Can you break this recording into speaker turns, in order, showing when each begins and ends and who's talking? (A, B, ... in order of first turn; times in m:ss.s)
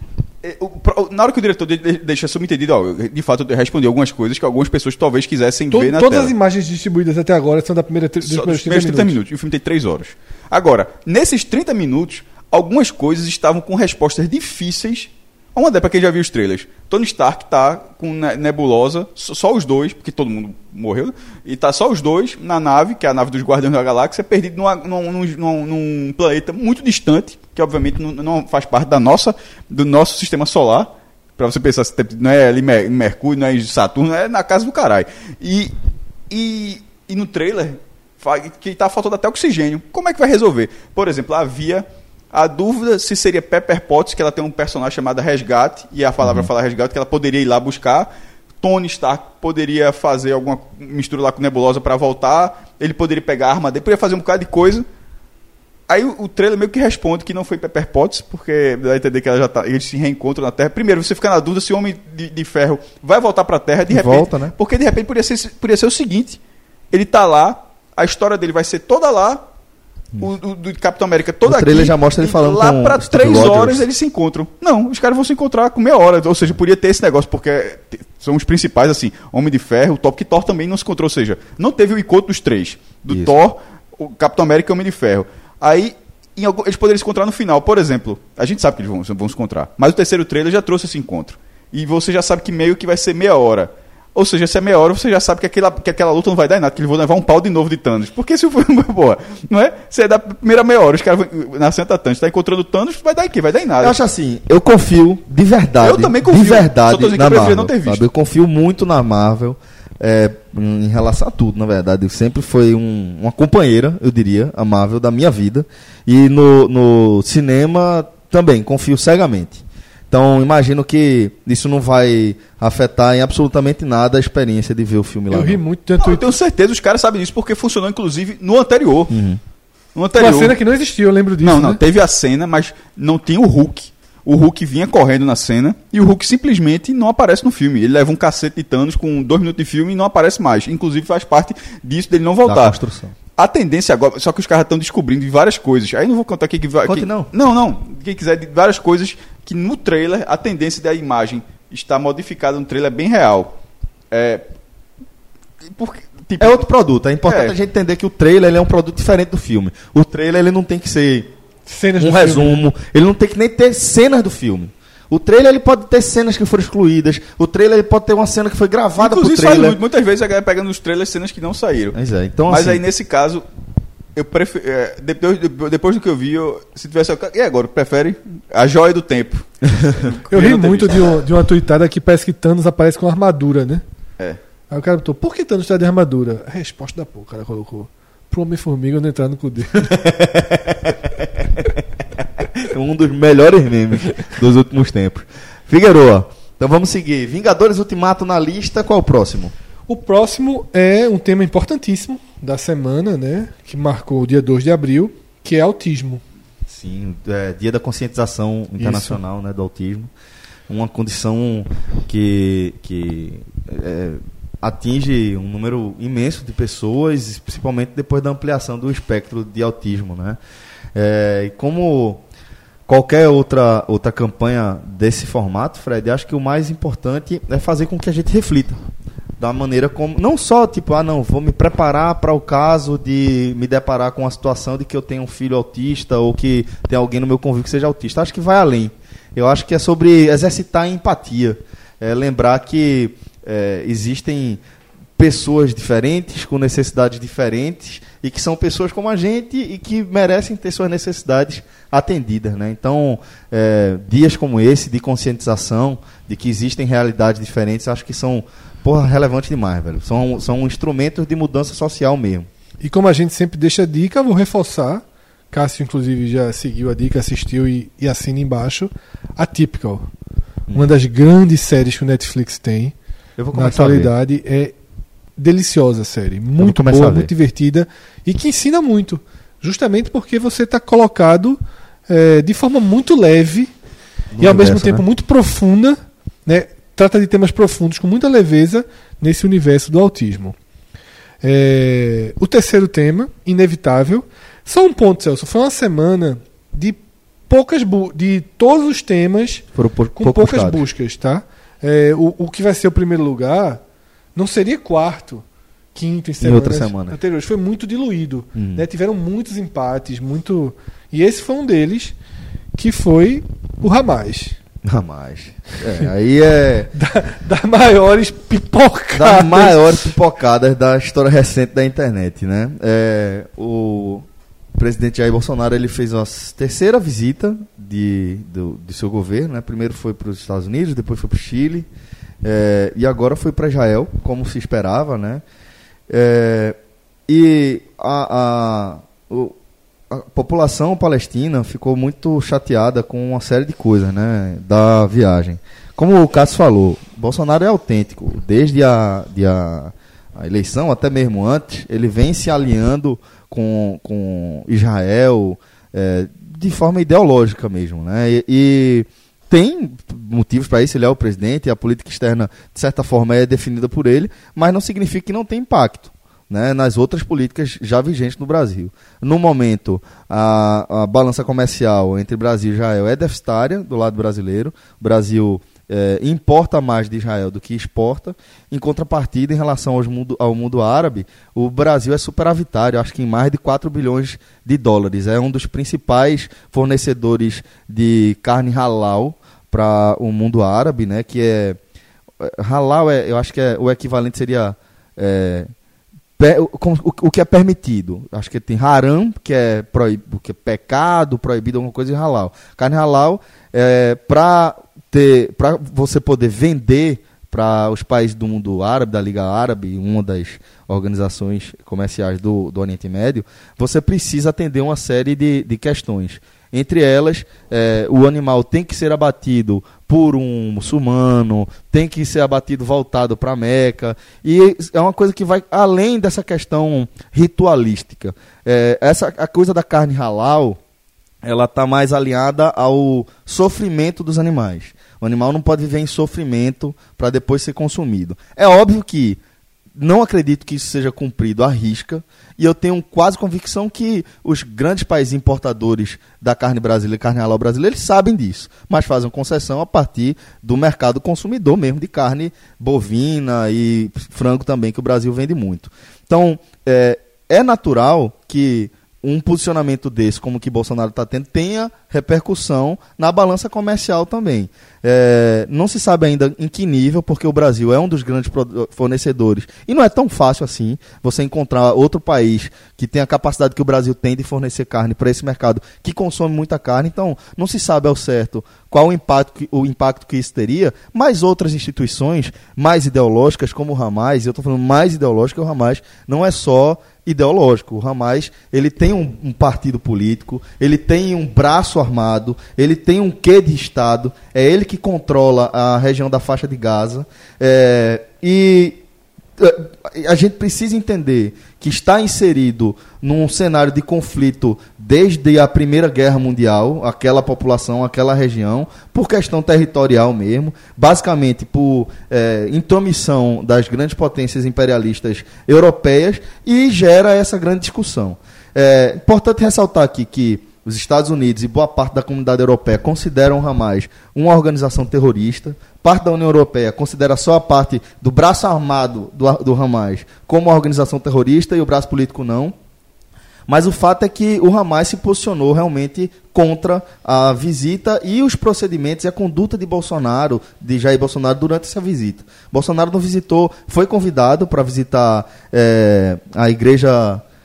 0:00.4-0:06.3 A
0:05.7-0:09.2 B
0:08.2-0:35.7 A
0:36.3-0:48.1 A
0:46.2-0:46.5 C
0:48.6-0:54.8 A
0:55.9-1:06.4 A
1:03.9-1:04.5 C
1:06.9-1:09.4 A
1:10.2-1:44.0 A
1:11.4-1:13.8 C
1:43.8-2:05.6 C
1:45.8-1:48.0 A
2:05.3-2:06.4 B
2:06.0-2:09.1 A
2:09.1-2:09.4 C
2:09.9-2:10.6 A
2:10.2-2:11.8 B
2:11.4-2:22.8 A
2:22.4-2:23.1 C
2:23.4-2:33.5 A
2:26.8-2:27.3 C
2:34.1-2:34.4 A
2:35.7-2:36.6 A
2:36.4-2:41.3 C
2:37.2-2:37.6 A
2:41.7-2:42.6 B
2:42.0-2:49.8 C
2:49.0-2:52.0 A
2:51.9-2:52.8 C
2:52.5-2:53.4 A
2:54.1-3:01.2 A
2:59.8-3:00.1 C
3:00.3-3:03.8 B
3:04.7-3:09.9 B
3:09.7-3:11.7 C
3:12.5-3:19.5 C
3:19.9-3:26.2 B
3:26.6-3:30.1 C
3:28.8-3:29.2 B
3:30.7-3:40.4 C
3:40.9-3:42.2 C
3:42.9-3:48.8 C
3:49.4-4:04.6 C
4:05.2-4:22.5 C
4:22.8-4:30.1 B
4:30.7-4:32.9 B
4:33.4-4:34.1 C
4:33.5-4:34.8 B
4:35.4-4:43.7 B
4:36.6-4:37.3 C
4:44.3-4:45.0 C
4:44.4-4:50.6 B
4:51.4-4:59.6 B
4:59.7-5:00.8 C
5:00.2-5:03.8 B
5:04.3-5:05.4 B
5:05.9-5:12.2 B
5:06.4-5:07.2 C
5:08.5-5:08.8 C
5:12.7-5:14.6 B
5:14.8-5:16.9 C
5:16.9-5:20.1 B
5:19.2-5:31.9 C
5:32.4-5:35.4 C
5:36.1-5:36.8 C
5:37.3-5:39.5 C
5:40.1-6:31.8 C
6:32.4-6:35.7 C
6:36.4-7:10.8 C
7:11.4-7:19.4 C
7:20.0-8:19.0 C
8:19.6-8:52.7 C
8:53.7-9:07.4 C